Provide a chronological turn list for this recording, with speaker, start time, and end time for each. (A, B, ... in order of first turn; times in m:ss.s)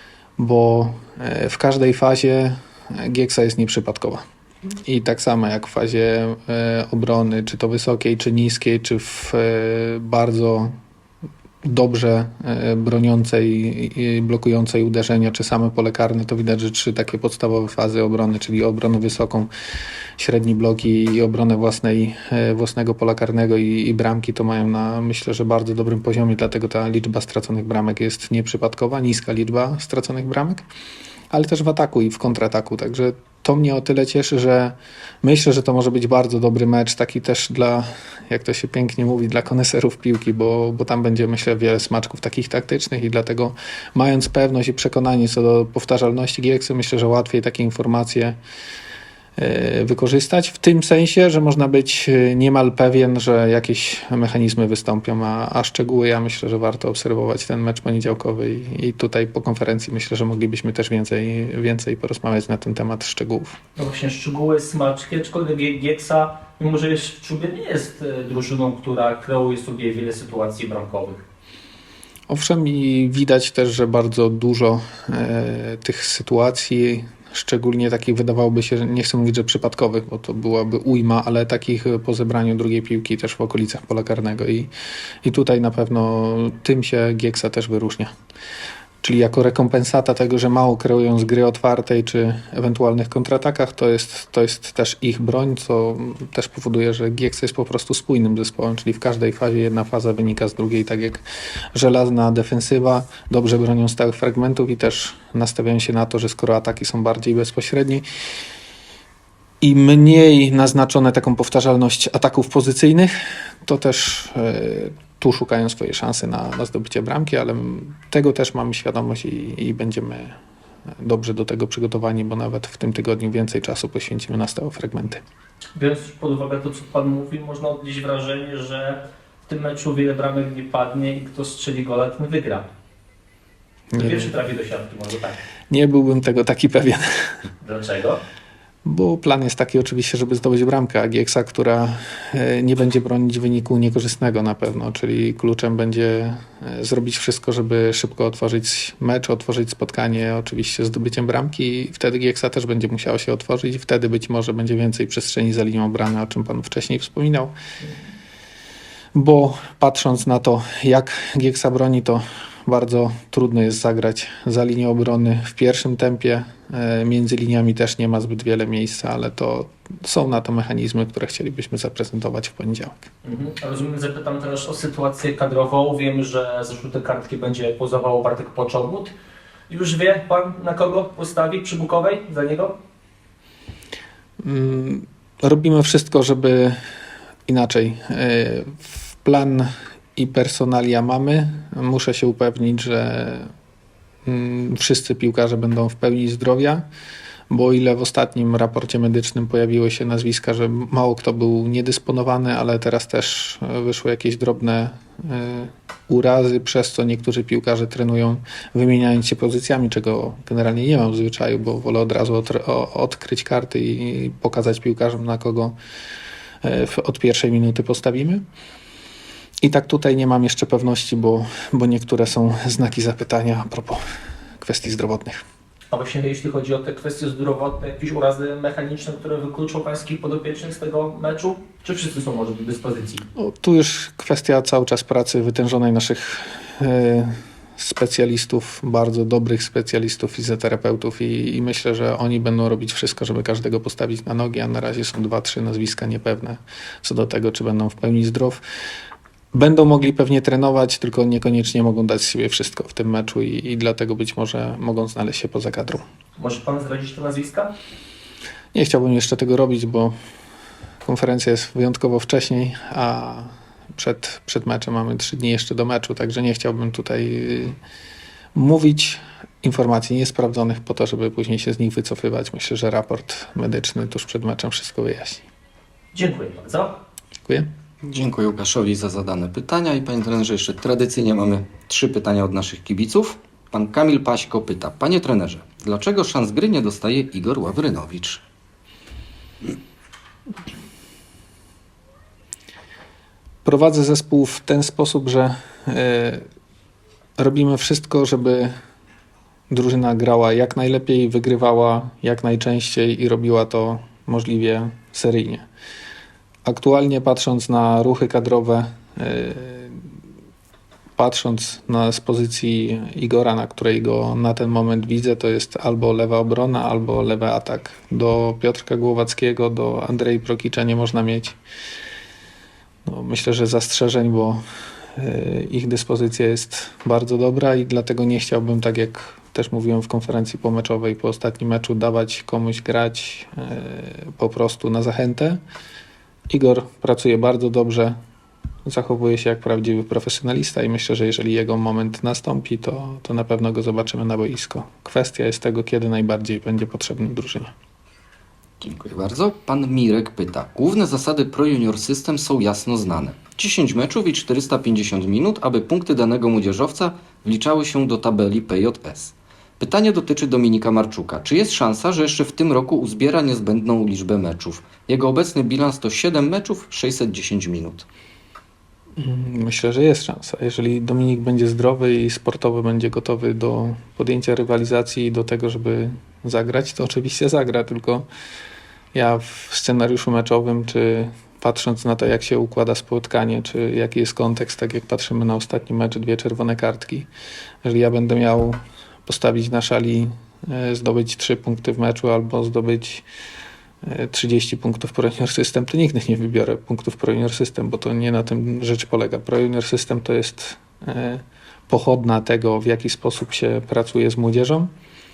0:00.4-0:04.2 A
0:04.8-0:10.7 A
0:11.6-0:19.5 A
0:20.2-0:30.6 A
0:31.3-0:48.4 A
0:49.4-1:03.6 A
1:03.8-1:11.2 B
1:12.3-1:24.7 A
1:25.2-1:28.1 A
1:29.0-1:41.2 A
1:41.7-1:48.0 A
1:49.6-1:53.1 A
1:53.6-2:00.4 A
2:01.0-2:05.2 A
2:05.8-2:12.7 B
2:13.9-2:14.4 A
2:14.0-2:15.4 B
2:15.7-2:17.0 A
2:17.6-2:18.2 B
2:18.8-2:37.5 A
2:39.1-2:53.1 A
2:53.2-2:59.1 B
2:59.7-3:02.8 B
3:04.4-3:06.8 A
3:07.5-3:13.5 A
3:14.3-3:16.9 A
3:17.5-3:35.8 A
3:36.6-3:38.4 A
3:39.6-3:44.0 A
3:44.6-3:45.4 A
3:45.9-3:53.2 B
3:53.4-4:08.6 A
4:09.5-4:16.0 A
4:16.4-4:17.7 B
4:18.7-4:20.1 A
4:21.0-4:27.8 A
4:28.6-4:35.4 A
4:36.1-4:37.0 B
4:38.0-4:48.4 C
4:53.6-4:56.4 A
4:57.4-4:58.7 A
4:59.7-5:05.7 A
5:06.7-5:10.0 A
5:11.2-5:21.6 A
5:23.1-5:24.6 A
5:25.2-5:35.6 A
5:36.5-5:38.2 A
5:38.9-5:47.7 A
5:48.8-6:08.1 C
6:09.2-6:18.3 A
6:19.1-6:27.3 A
6:27.8-6:33.2 A
6:34.0-6:44.9 A